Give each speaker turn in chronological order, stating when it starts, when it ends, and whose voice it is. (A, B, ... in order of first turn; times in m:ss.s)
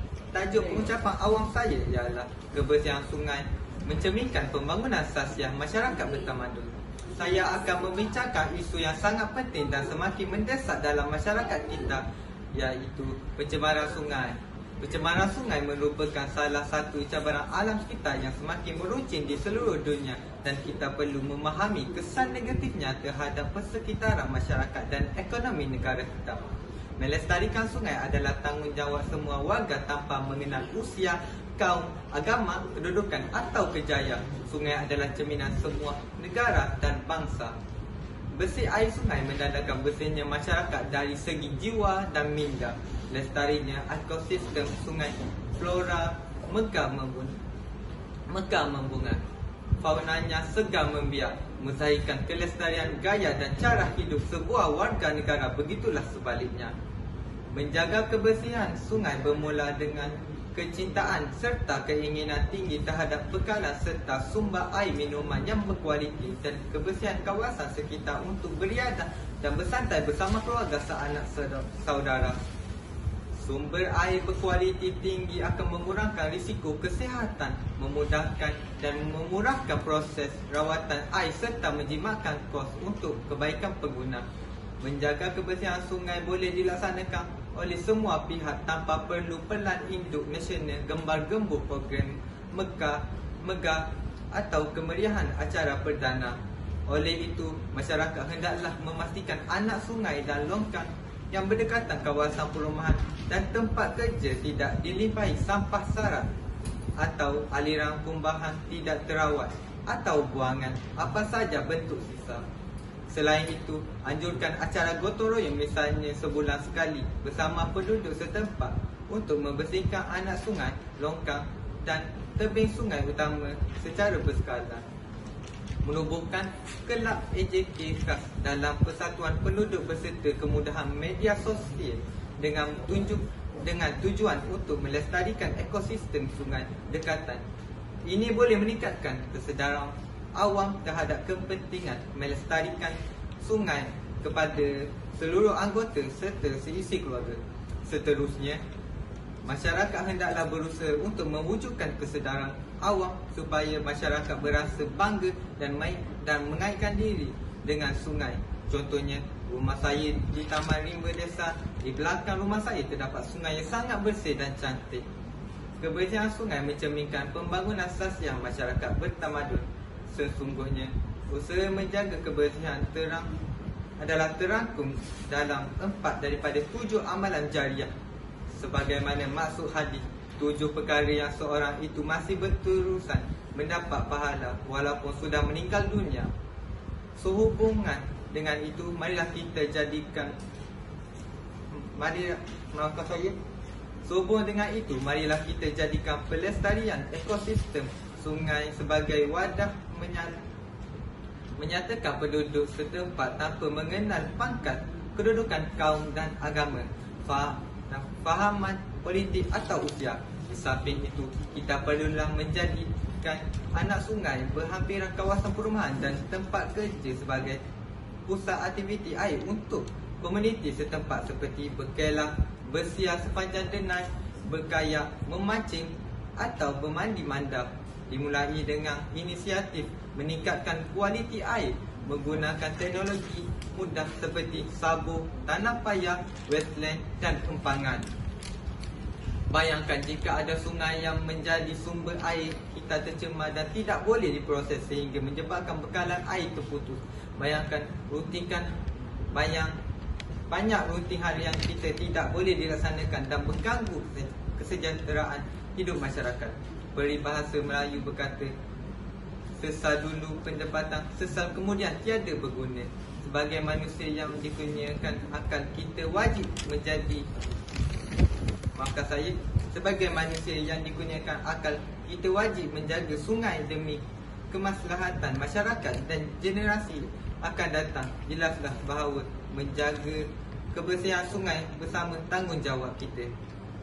0:00.3-0:26.4 A
0:27.0-0:37.5 A
0:38.3-0:47.4 A
0:48.3-0:49.2 A
0:49.8-0:56.7 A
0:57.5-1:12.4 A
1:13.4-1:24.2 A
1:24.8-1:46.3 A
1:47.0-1:52.4 A
1:53.1-2:04.8 A
2:05.8-2:17.4 A
2:18.0-2:28.6 A
2:29.4-2:45.0 A
2:45.8-2:53.3 A
2:54.0-2:57.9 A
2:58.5-3:06.3 A
3:07.2-3:10.3 A
3:11.7-3:13.4 A
3:14.0-3:20.3 A
3:21.6-3:37.6 A
3:38.2-3:58.1 A
3:59.5-4:08.7 A
4:09.3-4:09.8 A
4:10.5-4:18.5 A
4:19.6-4:27.3 A
4:28.7-4:43.3 A